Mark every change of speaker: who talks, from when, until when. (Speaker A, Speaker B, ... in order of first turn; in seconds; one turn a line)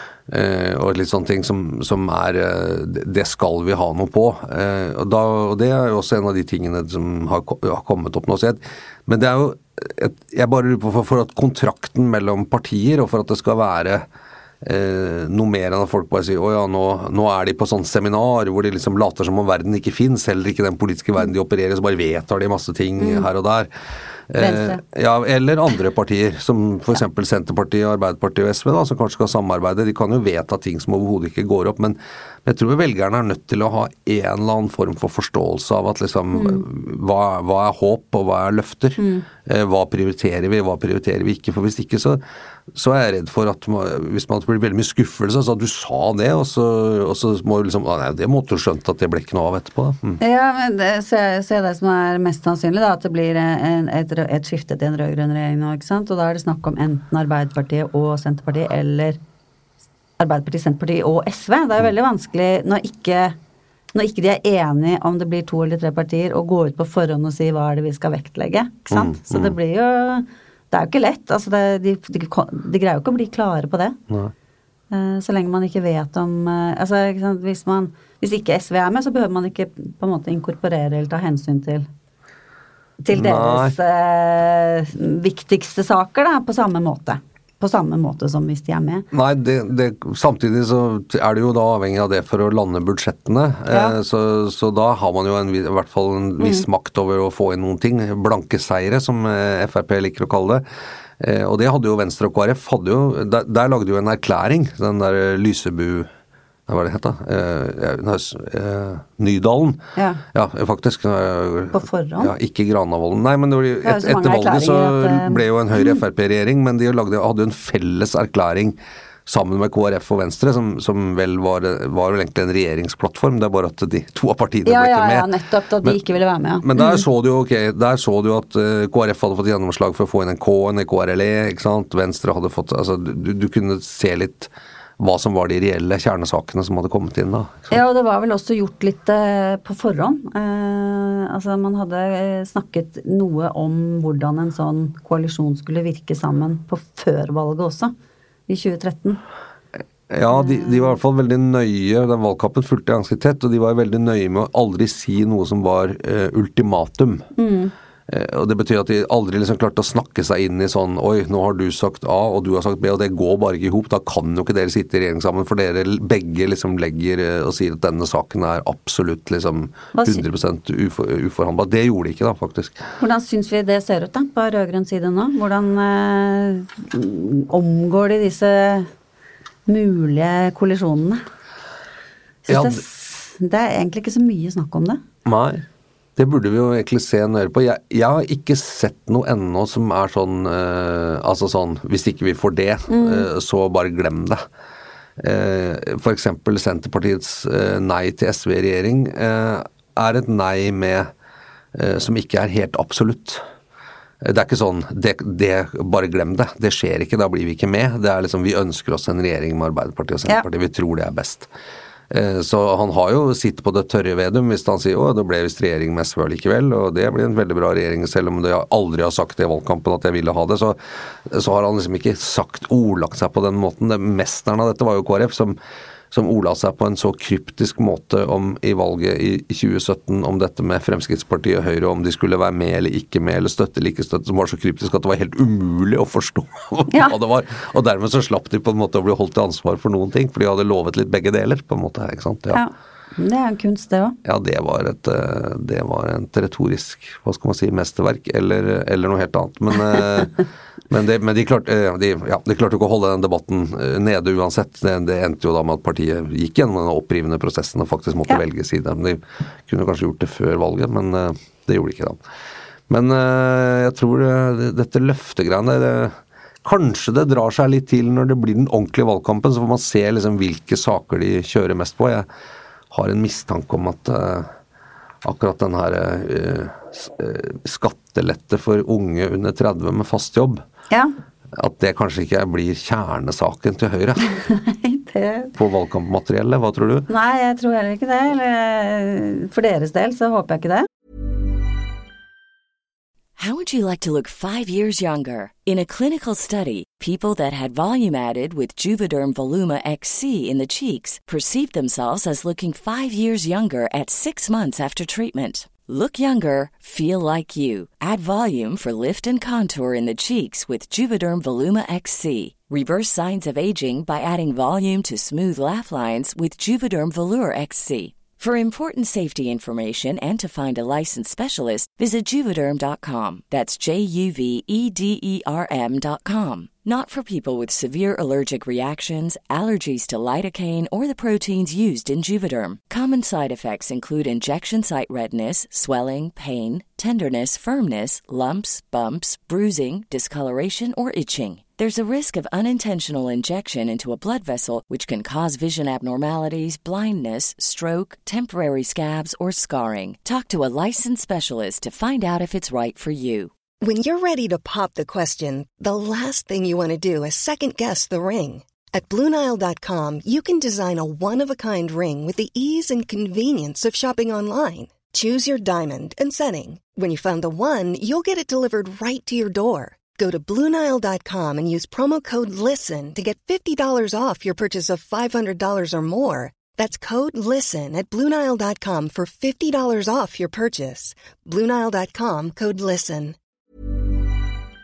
Speaker A: 0.3-14.1
Speaker A: 14.6-23.7
Speaker B: 23.0-23.3
Speaker A: 24.3-42.2
Speaker B: 24.4-24.8
Speaker B: 36.3-36.6
Speaker B: 39.0-39.2
Speaker A: 42.7-50.2
Speaker B: 50.2-59.2
Speaker B: 60.2-63.4
Speaker B: 63.9-74.0
Speaker A: 68.9-69.5
Speaker B: 74.9-81.9
Speaker B: 83.0-89.1
Speaker A: 83.1-83.7
Speaker A: 89.1-100.6
Speaker B: 93.7-94.0
Speaker B: 96.4-96.7
Speaker A: 101.2-106.1
Speaker A: 106.7-109.8
Speaker B: 110.0-110.2
Speaker A: 110.3-125.3
Speaker B: 111.7-112.3
Speaker B: 113.8-116.0
Speaker B: 124.7-127.0
Speaker A: 126.6-137.8
Speaker B: 137.7-147.9
Speaker B: 148.5-149.2
Speaker A: 150.1-157.2
Speaker B: 150.3-150.9
Speaker B: 157.3-157.7
Speaker A: 158.1-172.8
Speaker B: 169.9-170.2
Speaker B: 173.0-178.9
Speaker B: 179.7-181.2
Speaker B: 182.4-185.0
Speaker A: 182.5-182.8
Speaker A: 185.2-185.6
Speaker A: 186.2-194.4
Speaker B: 192.9-193.3
Speaker A: 195.2-201.1
Speaker A: 201.7-203.4
Speaker A: 204.2-211.5
Speaker A: 212.1-225.6
Speaker A: 226.1-242.6
Speaker B: 236.9-237.2
Speaker B: 242.5-244.2
Speaker A: 244.2-250.3
Speaker A: 250.9-262.2
Speaker A: 262.9-272.2
Speaker A: 272.9-274.5
Speaker A: 275.2-280.6
Speaker A: 281.6-284.3
Speaker B: 284.2-285.5
Speaker A: 285.6-287.1
Speaker B: 287.1-290.9
Speaker C: 293.4-353.5
Speaker D: 353.8-383.4